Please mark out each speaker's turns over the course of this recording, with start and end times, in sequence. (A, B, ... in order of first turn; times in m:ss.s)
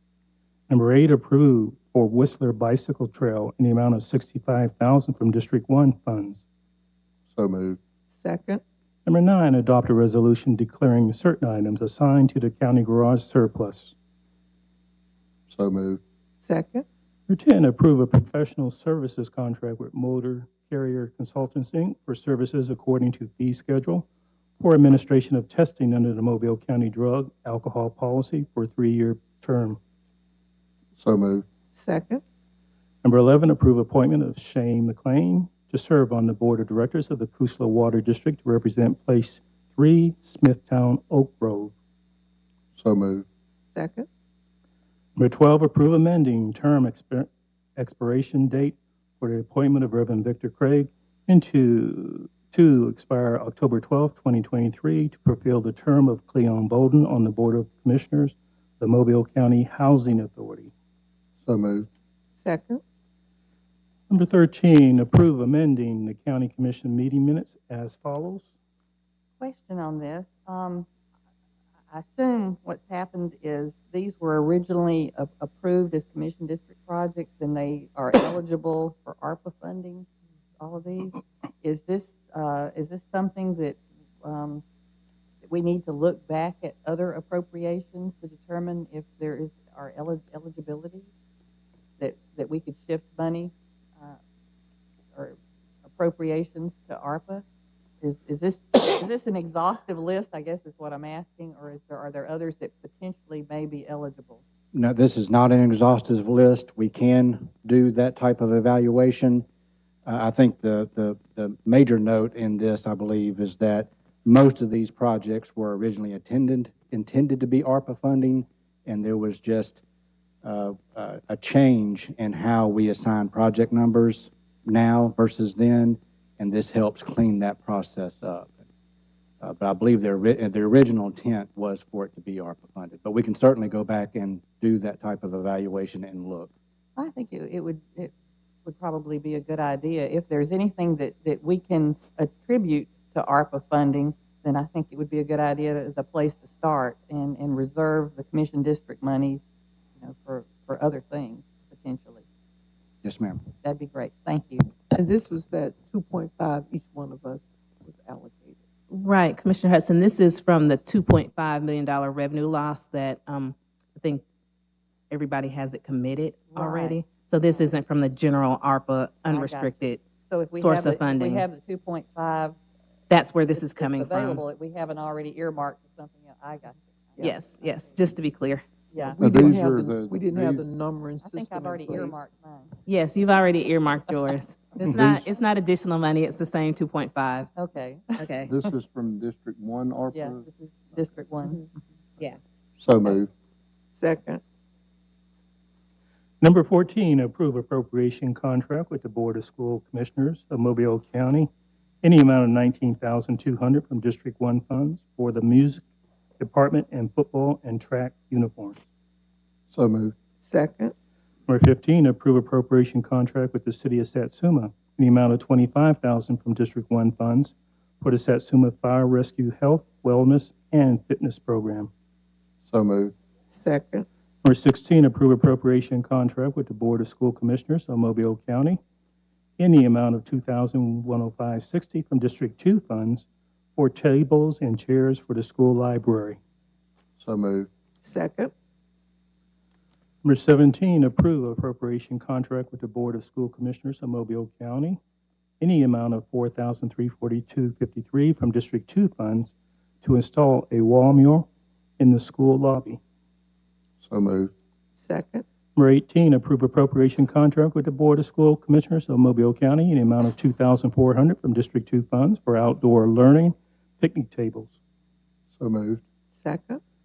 0:00.7-0:06.4 A
0:07.3-0:07.8 B
0:08.1-0:08.6 C
0:09.1-0:13.9 A
0:15.5-0:16.0 B
0:16.4-0:16.8 C
0:17.3-0:24.1 A
0:24.6-0:29.8 A
0:31.0-0:31.4 B
0:31.8-0:32.2 C
0:33.0-0:41.7 A
0:42.8-0:43.3 B
0:43.8-0:44.1 C
0:45.2-1:00.7 A
1:01.4-1:01.9 B
1:02.4-1:02.8 C
1:04.1-1:08.5 A
1:09.4-1:10.9 D
1:11.9-1:20.1 D
1:20.6-1:24.6 D
1:25.4-1:31.1 D
1:32.0-1:34.2 D
1:35.1-1:37.4 D
1:38.0-1:44.4 D
1:44.7-1:49.4 E
1:50.1-1:59.8 E
2:00.4-2:08.5 E
2:09.4-2:16.5 E
2:17.0-2:18.1 D
2:18.6-2:29.4 D
2:30.0-2:32.2 D
2:33.0-2:33.4 E
2:33.6-2:34.7 D
2:34.9-2:38.6 C
2:38.9-2:44.2 F
2:45.1-2:50.0 F
2:46.5-2:47.8 D
2:49.3-2:52.6 D
2:50.6-2:51.4 F
2:53.1-2:54.4 F
2:53.5-2:58.1 D
2:57.2-2:58.6 F
2:58.9-2:59.5 D
2:59.0-3:02.2 C
2:59.2-3:00.7 B
3:01.2-3:02.8 D
3:02.9-3:07.5 F
3:07.6-3:08.5 D
3:08.2-3:08.5 F
3:08.4-3:10.4 B
3:10.1-3:11.8 D
3:12.8-3:13.3 B
3:14.0-3:14.4 C
3:16.4-3:21.5 A
3:22.0-3:25.8 A
3:26.4-3:28.8 A
3:29.7-3:30.2 B
3:30.4-3:30.9 C
3:31.5-3:41.9 A
3:42.7-3:43.1 B
3:43.5-3:44.1 C
3:44.4-3:48.8 A
3:49.6-3:53.2 A
3:53.8-3:56.4 A
3:57.2-3:57.7 B
3:58.0-3:58.5 C
4:00.2-4:05.0 A
4:05.6-4:11.5 A
4:12.0-4:13.0 A
4:14.0-4:14.5 B
4:15.0-4:15.4 C
4:15.8-4:24.8 A
4:25.6-4:26.0 B
4:26.3-4:26.8 C